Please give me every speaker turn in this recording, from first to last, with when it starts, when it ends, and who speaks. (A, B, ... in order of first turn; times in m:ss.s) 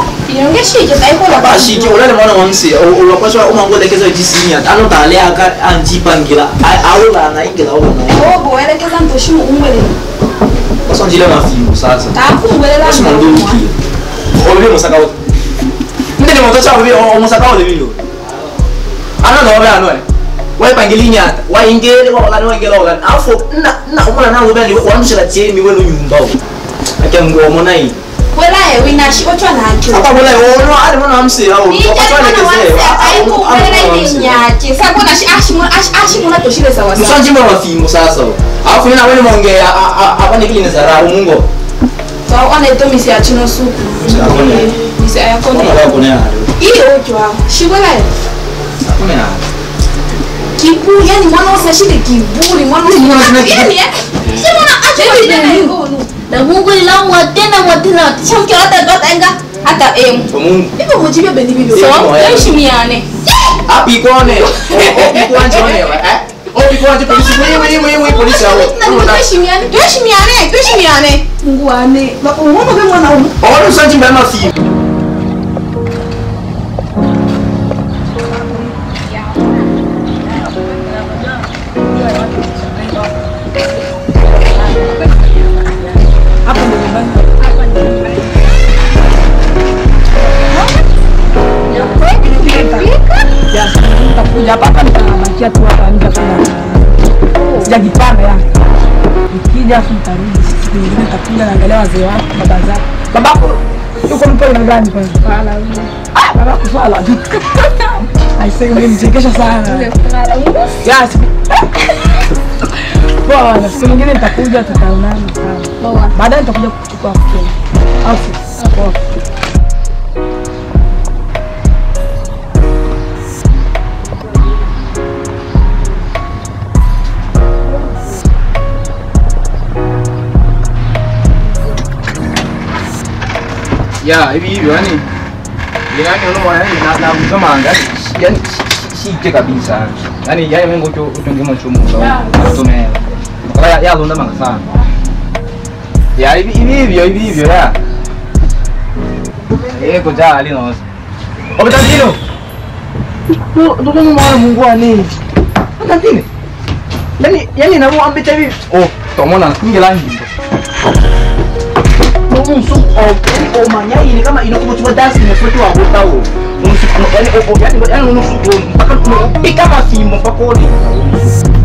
0:00.2-0:02.0 A
0:01.3-0:08.4 B
0:08.1-0:10.0 A
0:10.8-0:12.2 B
0:12.1-0:13.7 A
0:12.8-0:13.7 B
0:14.3-0:15.1 B
0:16.2-0:18.0 B
0:19.2-0:20.0 B
0:20.6-0:26.4 B
0:27.0-0:28.0 B
0:28.3-0:30.2 A
0:29.9-0:34.4 B
0:31.7-0:37.2 A
0:36.9-0:41.5 B
0:42.3-0:46.0 A
0:44.0-0:44.8 B
0:45.5-0:46.5 B
0:46.6-0:48.1 A
0:48.8-0:49.4 B
0:50.6-1:03.1 A
0:52.8-0:53.7 B
1:00.3-1:00.7 B
1:01.7-1:02.6 B
1:03.6-1:09.2 B
1:04.4-1:06.0 A
1:06.9-1:13.3 A
1:13.4-1:14.6 B
1:21.9-1:23.0 C
1:26.4-1:28.3 C
1:31.7-1:33.2 A
1:31.7-1:32.9 C
1:33.5-1:37.0 C
1:37.3-1:37.7 A
1:37.6-1:38.4 C
1:39.3-1:45.2 C
1:45.2-1:45.9 A
1:46.1-1:49.9 C
1:49.5-1:50.8 A
1:50.8-1:51.7 C
1:53.1-1:59.0 C
1:55.8-1:56.1 A
2:14.0-2:15.0 B
2:15.9-2:24.6 B
2:26.2-2:27.8 B
2:29.7-2:30.8 B
2:31.6-2:32.2 B
2:33.5-2:35.1 B
2:35.8-2:36.2 B
2:37.2-2:40.3 B
2:42.3-2:51.3 B